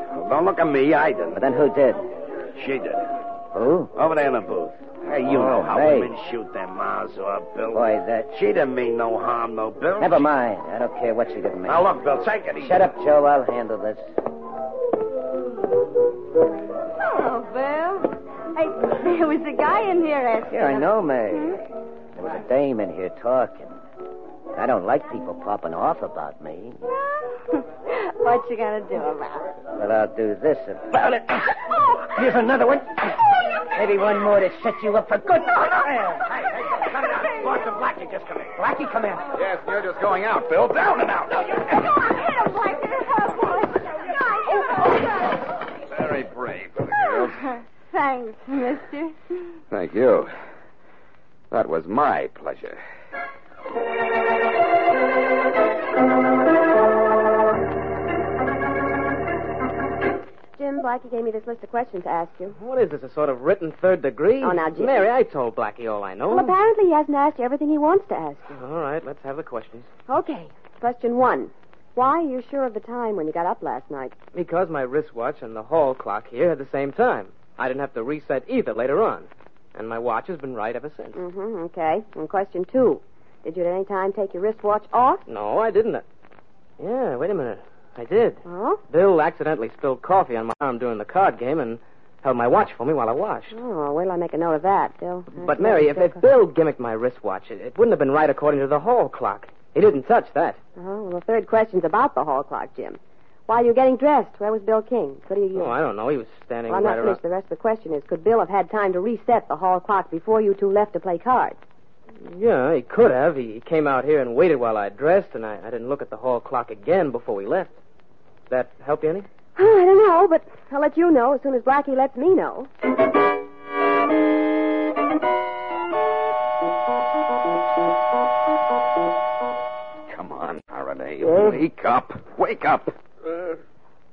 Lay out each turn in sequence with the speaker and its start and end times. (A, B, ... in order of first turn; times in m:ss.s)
0:00.1-0:01.4 A
0:01.3-0:02.1 B
0:02.6-0:03.1 A
0:03.5-0:03.9 B
0:03.9-0:10.3 A
0:05.1-0:06.1 B
0:07.7-0:08.3 B
0:10.0-0:11.9 B
0:11.7-0:12.9 A
0:12.6-0:14.1 B
0:17.0-0:20.9 C
0:20.5-0:23.8 B
0:24.6-0:26.8 B
0:27.6-0:29.5 C
0:29.7-0:36.3 B
0:36.2-0:38.6 A
0:38.6-0:39.3 B
0:39.3-0:41.7 D
0:41.9-0:45.1 C
0:45.9-0:47.4 D
0:47.9-0:49.2 C
0:49.7-0:50.3 D
0:51.5-0:52.8 D
1:00.6-1:02.6 E
1:02.6-1:06.6 F
1:04.4-1:05.1 E
1:06.3-1:08.5 E
1:08.5-1:09.9 F
1:10.1-1:14.1 E
1:14.3-1:21.2 F
1:21.1-1:25.2 E
1:25.3-1:26.0 F
1:26.8-1:33.6 F
1:28.4-1:28.8 E
1:33.5-1:36.2 E
1:35.3-1:40.6 F
1:40.8-1:45.8 E
1:45.5-1:47.2 F
1:46.7-1:51.6 E
1:52.2-1:57.7 F
1:58.5-1:59.3 F
1:59.6-2:02.7 E
2:10.1-2:12.9 D